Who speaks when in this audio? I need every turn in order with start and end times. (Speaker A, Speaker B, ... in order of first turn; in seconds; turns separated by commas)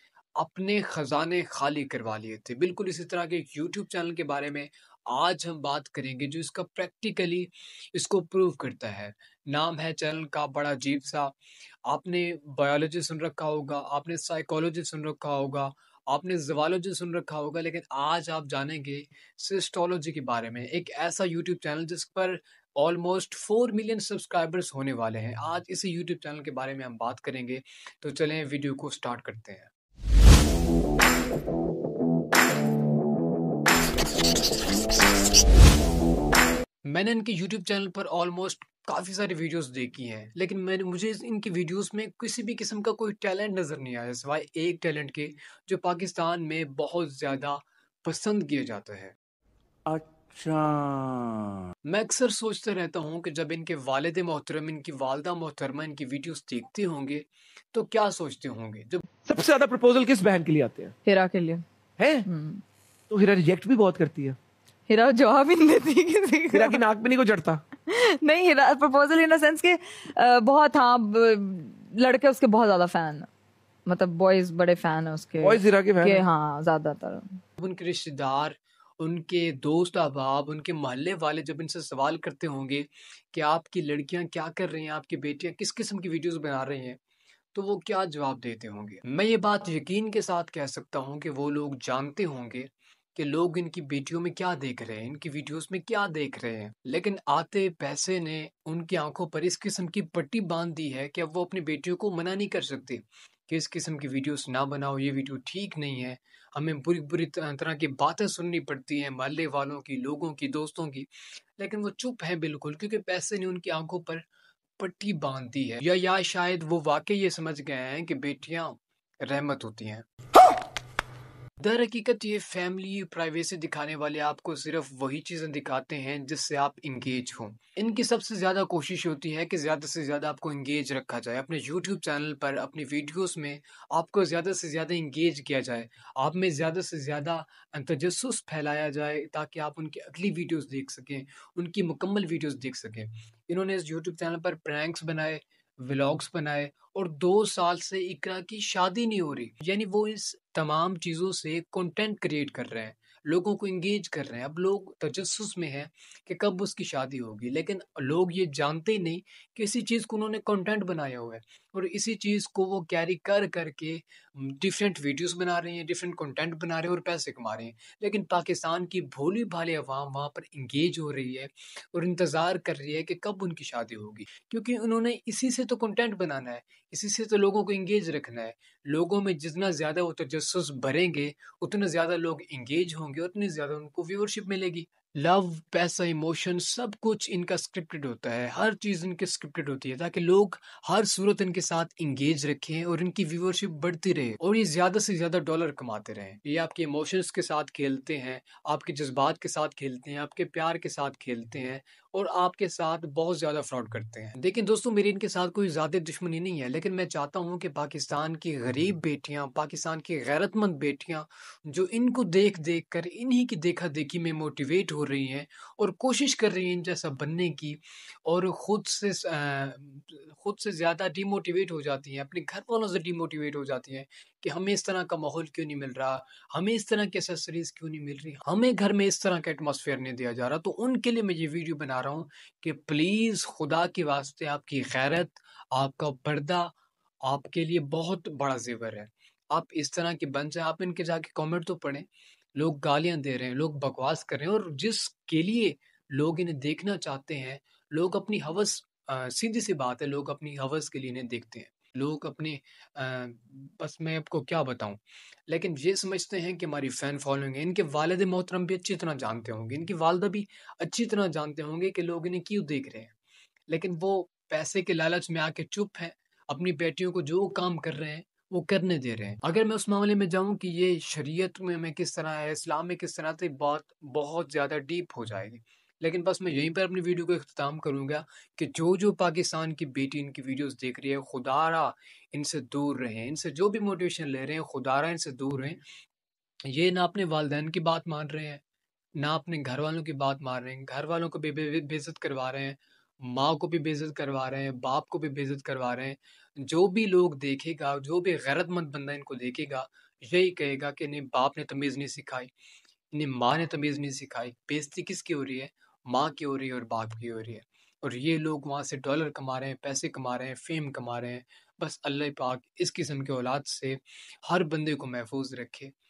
Speaker A: 0.4-29.7, Speaker A: 36.8-49.1, Speaker B: 49.9-51.6, Speaker A: 51.9-59.0, Speaker B: 59.2-60.9, Speaker C: 61.0-61.6, Speaker B: 62.0-62.3, Speaker C: 62.2-62.6, Speaker B: 63.1-64.4, Speaker C: 64.9-66.8, Speaker B: 66.5-67.6, Speaker C: 67.9-73.3, Speaker C: 73.8-77.4, Speaker B: 75.4-76.2, Speaker A: 77.6-87.0, Speaker A: 87.5-114.2, Speaker A: 114.8-120.1, Speaker A: 121.6-236.7, Speaker A: 237.2-242.0, Speaker A: 242.6-263.1, Speaker A: 263.7-285.8, Speaker A: 286.7-288.6, Speaker A: 289.2-302.5, Speaker A: 303.1-315.9